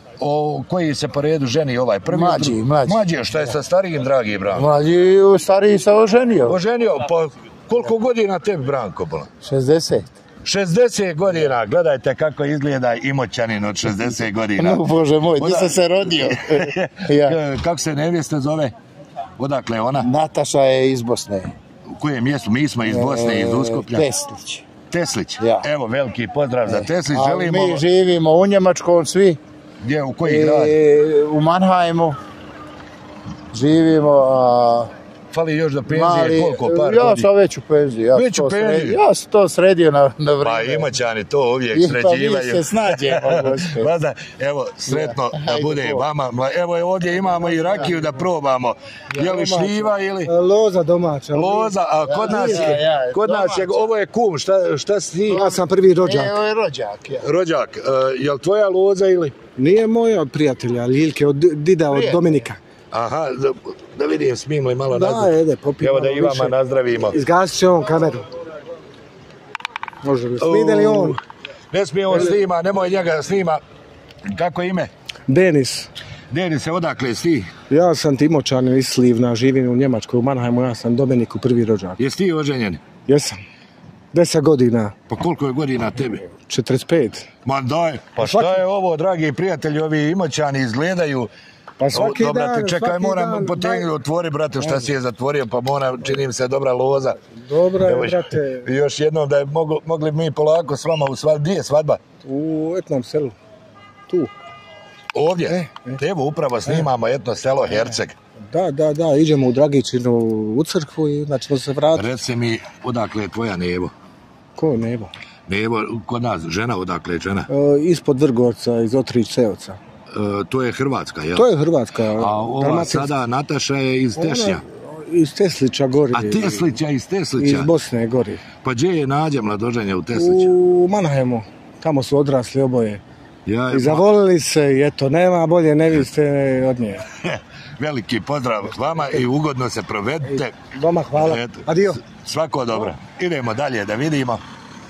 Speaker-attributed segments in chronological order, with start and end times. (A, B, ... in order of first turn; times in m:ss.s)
0:00.2-0:04.7 A
0:02.1-0:03.5 B
0:04.5-0:06.6 B
0:06.5-0:09.3 A
0:09.4-0:10.2 B
0:10.4-0:14.8 A
0:14.6-0:17.4 B
0:15.4-0:18.8 A
0:19.4-0:20.1 A
0:20.0-0:21.5 B
0:21.9-0:24.1 A
0:22.8-0:24.7 B
0:24.9-0:27.8 A
0:25.4-0:25.7 B
0:26.7-0:29.4 B
0:29.8-0:30.8 A
0:30.2-0:32.2 B
0:33.5-0:34.9 B
0:35.3-0:37.3 A
0:35.9-0:41.0 B
0:38.1-0:39.0 A
0:40.4-0:50.3 A
0:41.7-0:43.9 B
0:44.9-0:46.1 B
0:47.2-0:48.1 B
0:49.2-0:51.7 C
0:51.3-0:55.4 A
0:52.0-0:53.9 B
0:52.2-0:52.7 C
0:55.3-0:57.3 B
0:55.4-0:56.4 C
0:57.2-0:59.3 A
0:59.6-1:02.6 C
1:01.8-1:02.4 B
1:02.9-1:07.2 A
1:04.9-1:08.3 C
1:10.0-1:11.2 C
1:10.4-1:11.2 A
1:11.7-1:13.6 A
1:14.3-1:14.9 A
1:15.3-1:15.9 C
1:16.3-1:17.5 A
1:17.7-1:22.0 C
1:22.0-1:22.8 A
1:23.1-1:23.4 C
1:24.1-1:25.0 C
1:25.1-1:26.3 A
1:26.4-1:27.3 C
1:27.4-1:31.3 A
1:28.2-1:28.6 C
1:31.8-1:33.9 C
1:31.9-1:37.2 A
1:34.6-1:34.9 C
1:37.3-1:38.7 C
1:37.8-1:42.0 A
1:42.2-1:43.4 C
1:45.1-1:48.2 A
1:45.5-1:46.0 C
1:48.4-1:52.1 C
1:52.0-1:53.9 A
1:54.6-1:55.1 C
1:55.5-1:57.5 A
1:57.5-1:59.8 C
2:00.1-2:01.5 A
2:01.4-2:03.2 C
2:02.2-2:04.6 A
2:04.2-2:06.8 C
2:06.1-2:07.7 A
2:07.4-2:08.4 C
2:08.6-2:10.5 A
2:10.1-2:13.0 C
2:13.5-2:14.0 A
2:13.7-2:17.0 C
2:17.2-2:20.6 A
2:20.3-2:22.0 C
2:21.2-2:24.4 A